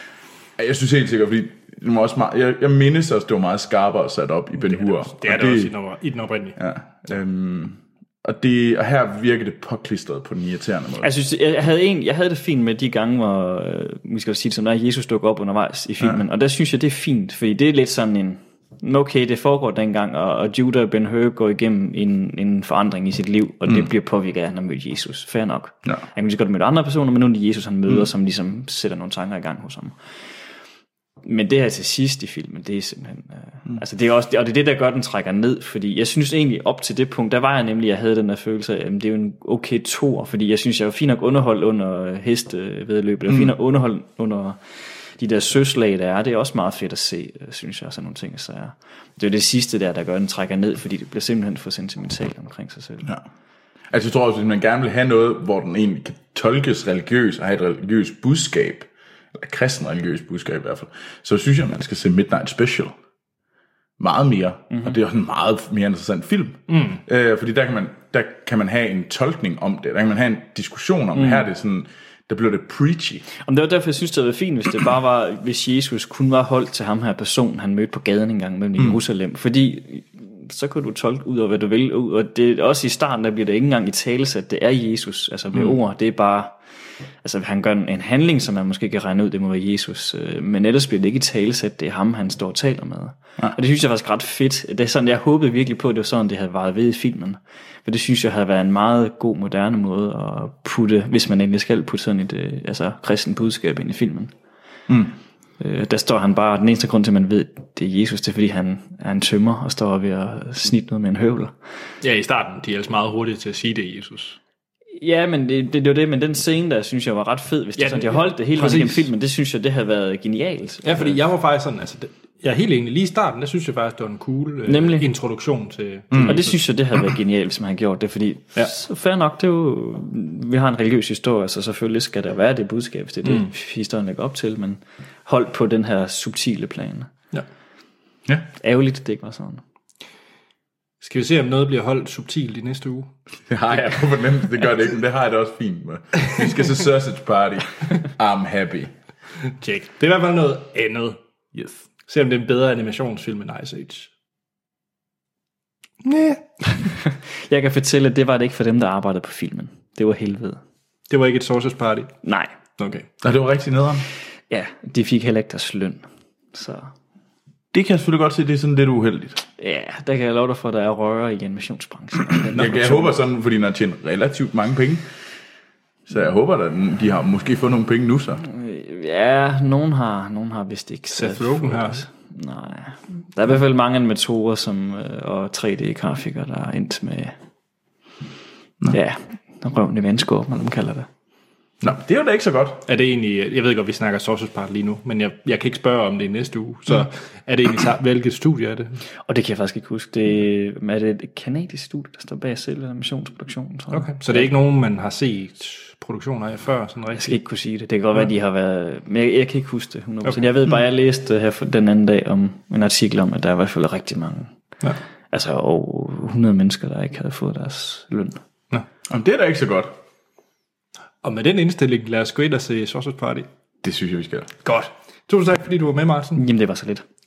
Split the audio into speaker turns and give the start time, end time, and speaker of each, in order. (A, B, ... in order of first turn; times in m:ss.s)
0:00.6-0:05.7 A
0:04.6-0:06.6 B
0:06.6-0:11.1 A
0:11.0-0:30.0 C
0:31.2-0:44.6 C
0:45.2-0:53.1 C
0:53.9-1:03.0 A
1:04.0-1:13.3 A
1:04.7-1:05.0 C
1:06.7-1:07.0 B
1:11.2-1:11.5 C
1:13.4-1:26.6 C
1:27.2-1:44.3 C
1:44.9-1:45.2 A
1:45.6-1:51.6 C
1:52.0-1:54.4 B
1:55.0-2:01.2 C
1:57.8-1:59.1 B
2:00.8-2:06.6 B
2:04.7-2:05.1 C
2:06.1-2:06.4 A
2:06.2-2:17.1 C
2:13.2-2:13.5 B
2:18.6-2:19.6 C
2:21.0-2:23.1 B
2:23.5-2:28.9 A
2:29.5-2:34.1 B
2:36.0-2:36.5 B
2:37.0-2:40.6 C
2:41.1-2:42.1 B
2:42.2-2:42.5 C
2:42.8-2:43.1 B
2:43.2-2:44.1 A
2:44.5-2:46.9 C
2:47.7-2:49.4 A
2:49.6-2:53.2 C
2:52.5-2:55.1 A
2:56.1-2:58.4 A
2:58.5-3:07.4 C
3:01.1-3:02.0 B
3:08.9-3:11.1 C
3:11.8-3:12.8 A
3:12.9-3:19.0 B
3:19.3-3:24.5 C
3:23.9-3:27.4 B
3:27.2-3:34.5 C
3:35.3-3:38.4 C
3:39.1-3:39.9 A
3:41.2-3:43.5 B
3:43.8-3:44.5 A
3:44.6-3:46.5 B
3:46.4-3:47.0 C